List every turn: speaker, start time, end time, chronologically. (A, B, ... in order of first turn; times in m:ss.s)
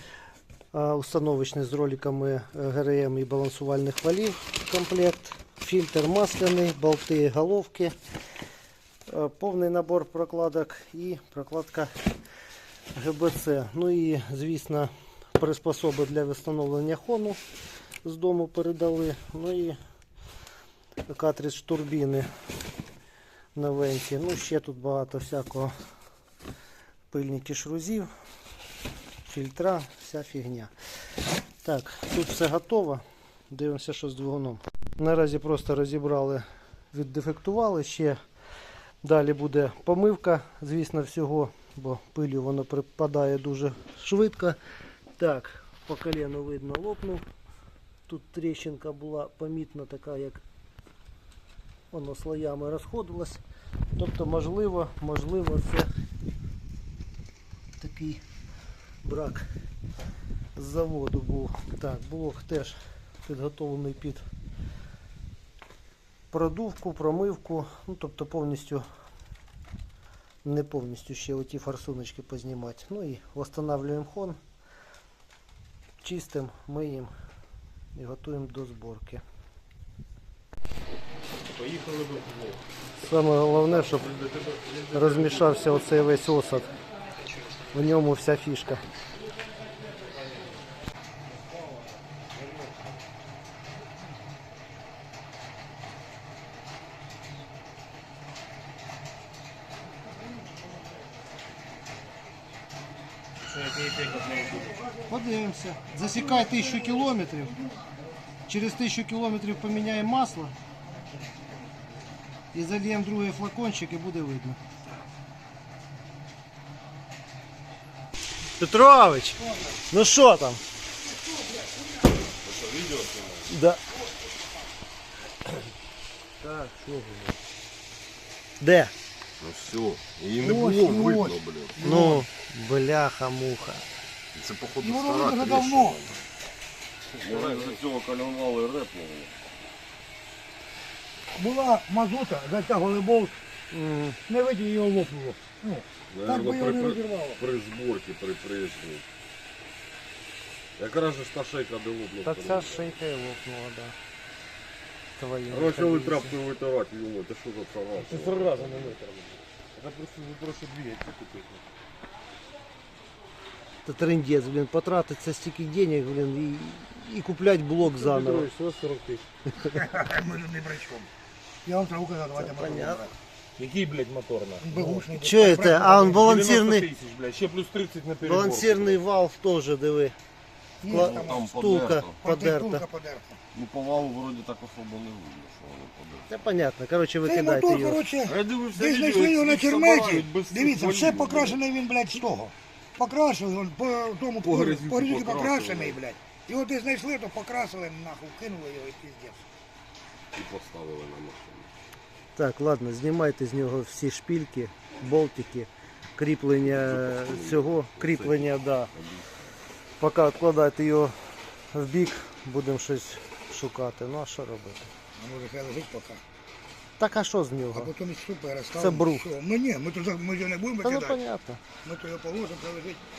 0:00.7-0:08.0 A
0:09.1-0:11.9 A
0:12.9-0:17.4 A
0:18.0-0:19.8 A
0:21.1-0:22.3 A
0:23.6-0:25.8 A
0:27.1-0:28.1 A
0:29.3-0:30.7 A
0:31.6-0:38.2 A
0:39.0-0:44.6 A
0:45.2-0:47.3 A
0:48.1-0:50.4 A
0:51.9-0:53.4 A
0:54.0-0:55.9 A
0:57.8-0:58.2 A
0:59.0-0:59.5 A
1:00.6-1:04.3 A
1:06.3-1:08.9 A
1:10.4-1:14.4 A
1:16.0-1:17.1 A
1:18.0-1:19.2 A
1:21.5-1:22.6 B
1:22.9-1:24.2 A
1:23.8-1:25.8 B
1:24.9-1:26.7 A
1:27.7-1:28.8 A
1:43.5-1:44.8 B
1:45.1-1:47.6 A
1:48.5-1:50.5 A
1:52.5-1:54.6 A
1:58.6-2:00.6 A
2:02.4-2:03.5 C
2:03.5-2:03.8 A
2:06.4-2:07.4 B
2:08.6-2:08.9 A
2:09.4-2:11.8 C
2:10.4-2:12.2 D
2:11.8-2:13.8 A
2:14.4-2:16.0 C
2:14.8-2:16.1 D
2:17.2-2:19.4 C
2:17.3-2:17.7 B
2:21.4-2:23.4 D
2:23.7-2:24.2 A
2:24.3-2:27.4 D
2:26.1-2:29.0 C
2:30.8-2:32.9 C
2:32.2-2:34.0 A
2:35.2-2:36.4 A
2:35.5-2:39.0 C
2:38.0-2:41.6 B
2:43.8-2:48.5 A
2:47.8-2:49.2 B
2:49.7-2:51.1 D
2:51.6-2:53.1 D
2:52.4-2:53.1 A
2:53.6-2:55.1 B
2:54.6-2:56.3 D
2:55.2-2:56.9 A
2:56.1-2:59.0 B
2:58.2-3:00.2 A
3:00.8-3:01.5 D
3:00.9-3:02.8 A
3:00.9-3:02.2 C
3:02.2-3:03.4 D
3:03.5-3:06.3 C
3:06.3-3:08.0 A
3:07.2-3:19.5 D
3:08.2-3:11.6 C
3:14.4-3:16.0 C
3:20.4-3:21.7 C
3:22.4-3:28.9 A
3:26.6-3:29.4 C
3:30.0-3:31.2 A
3:31.7-3:34.9 A
3:35.2-3:36.2 D
3:37.0-3:37.9 A
3:37.7-3:41.2 D
3:38.7-3:39.3 A
3:40.8-3:41.6 A
3:41.8-3:43.0 D